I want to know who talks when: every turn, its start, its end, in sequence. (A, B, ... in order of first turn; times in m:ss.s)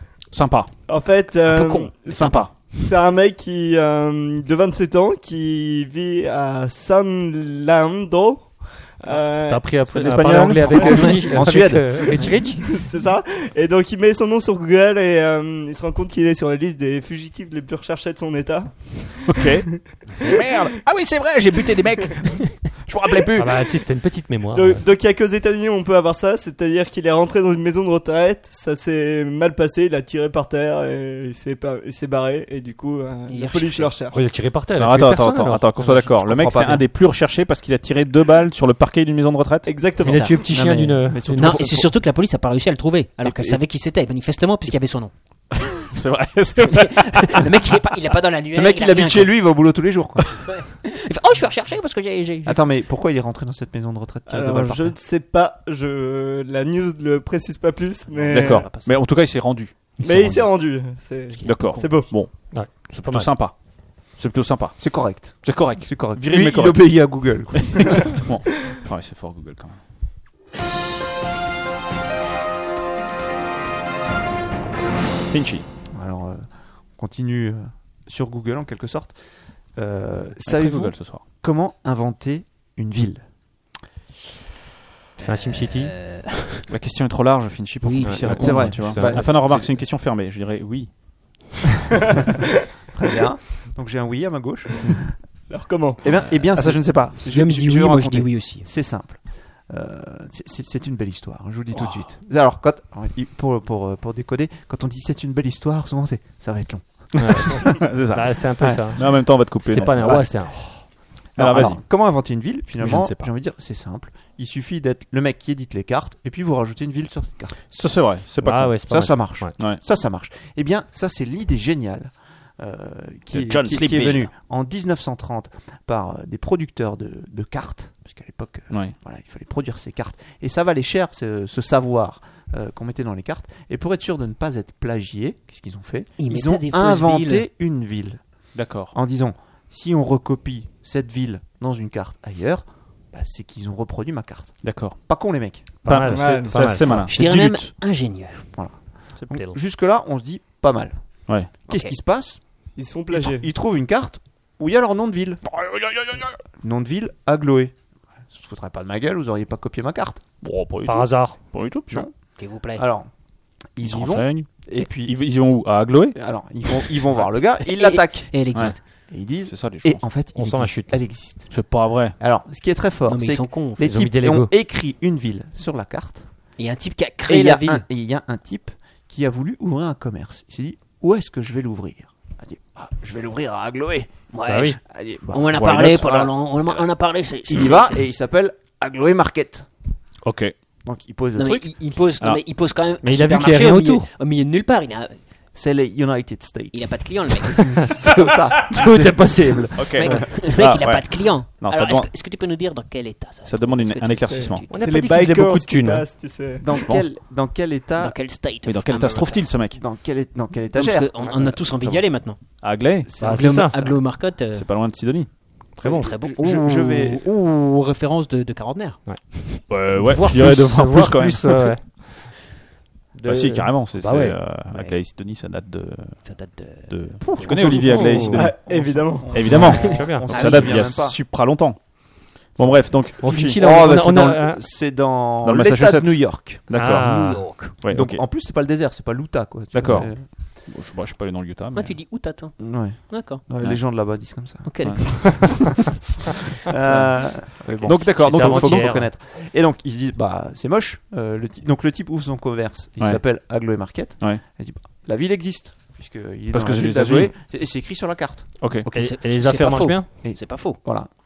0:00.3-0:00.7 A
0:00.9-0:09.8 B
0:01.4-0:02.5 A
0:09.4-0:12.6 C
0:09.8-0:11.2 A
0:10.7-0:12.2 D
0:12.6-0:20.2 B
0:19.3-0:19.7 A
0:20.2-0:23.6 A
0:23.4-0:24.8 C
0:24.5-0:34.2 B
0:33.3-0:34.0 E
0:34.1-0:35.6 C
0:34.7-0:39.7 A
0:35.8-0:36.9 D
0:39.6-0:40.4 B
0:40.0-0:40.3 E
0:40.0-0:41.7 C
0:40.4-0:41.9 D
0:41.3-0:45.1 E
0:45.5-0:47.5 A
0:46.6-0:49.3 E
0:48.5-0:50.5 D
0:50.4-0:52.6 E
0:52.4-0:55.0 D
0:54.3-0:58.7 B
0:58.1-0:58.9 E
0:58.3-1:00.4 A
1:00.0-1:02.1 B
1:01.3-1:02.1 E
1:01.4-1:09.8 A
1:02.3-1:03.3 C
1:04.8-1:08.2 D
1:15.3-1:15.7 A
1:15.9-1:23.2 D
1:20.4-1:21.2 A
1:25.2-1:25.9 C
1:25.2-1:26.7 E
1:26.7-1:31.6 A
1:27.8-1:29.3 E
1:28.0-1:29.2 C
1:28.3-1:29.5 D
1:32.9-1:35.1 D
1:35.5-1:36.0 B
1:36.0-1:47.6 D
1:36.6-1:37.0 A
1:37.3-1:38.7 E
1:47.2-1:50.8 C
1:47.3-1:50.4 A
1:48.6-1:57.6 D
1:51.3-1:51.9 A
1:52.8-1:53.3 A
1:57.7-1:58.9 A
1:58.4-1:59.5 C
1:58.9-2:26.0 D
1:59.6-1:59.8 A
2:03.3-2:04.3 A
2:16.2-2:17.4 E
2:18.5-2:18.9 A
2:24.6-2:25.0 A
2:25.8-2:27.7 A
2:25.8-2:26.8 C
2:26.0-2:26.7 B
2:27.1-2:28.5 E
2:28.5-2:35.4 D
2:29.2-2:29.6 C
2:31.7-2:31.9 E
2:32.8-2:33.5 B
2:35.4-2:36.4 A
2:36.6-2:37.7 D
2:38.3-2:40.2 D
2:40.4-2:42.1 A
2:40.8-2:41.4 C
2:41.9-2:43.1 D
2:42.4-2:42.8 E
2:43.7-2:45.4 D
2:43.8-2:46.2 A
2:46.1-2:56.3 D
2:47.6-2:48.8 E
2:49.4-2:50.0 A
2:50.3-2:51.0 C
2:51.5-2:52.2 A
2:53.1-2:53.8 E
2:53.8-2:54.5 C
2:56.6-2:57.8 E
2:57.2-3:04.2 D
3:04.3-3:08.0 E
3:04.5-3:04.8 C
3:04.9-3:06.3 D
3:05.5-3:06.8 A
3:07.5-3:09.7 D
3:10.2-3:10.5 A
3:10.8-3:11.7 D
3:11.4-3:15.2 E
3:13.0-3:14.1 C
3:15.5-3:19.6 D
3:16.7-3:18.0 E
3:18.0-3:20.2 C
3:19.7-3:22.1 A
3:20.0-3:24.8 E
3:23.4-3:24.7 A
3:24.3-3:26.7 B
3:24.7-3:26.1 C
3:26.6-3:28.2 D
3:26.7-3:27.1 A
3:28.0-3:29.6 E
3:28.6-3:29.8 A
3:29.7-3:31.7 D
3:30.7-3:32.4 E
3:32.6-3:33.1 A
3:33.1-3:34.7 E
3:33.2-3:33.8 C
3:33.2-3:33.6 D
3:34.5-3:35.3 A
3:35.8-3:36.1 C
3:35.8-3:37.3 D
3:35.8-3:39.0 E
3:39.0-3:42.3 C
3:39.7-3:41.7 A
3:43.1-3:44.4 C
3:43.2-3:46.3 A
3:44.7-3:45.0 E
3:46.2-3:47.7 E
3:46.9-3:53.6 A
3:47.3-3:51.2 D
3:47.5-3:48.5 C
3:48.3-3:50.1 B
3:49.4-3:50.3 C
3:50.3-3:50.8 E
3:52.6-3:56.7 D
3:53.2-3:54.6 C
3:55.4-3:58.2 A
3:56.7-3:57.5 C
3:57.0-3:57.8 E
3:57.8-4:00.3 D
3:59.7-4:01.9 A
4:01.7-4:03.4 E
4:02.6-4:05.5 D
4:04.6-4:05.7 E
4:04.8-4:05.7 A
4:06.6-4:18.7 D
4:06.8-4:09.0 A
4:08.2-4:09.1 C
4:16.5-4:17.3 A
4:18.6-4:18.9 A
4:18.9-4:20.1 C
4:18.9-4:20.8 E
4:20.2-4:21.1 D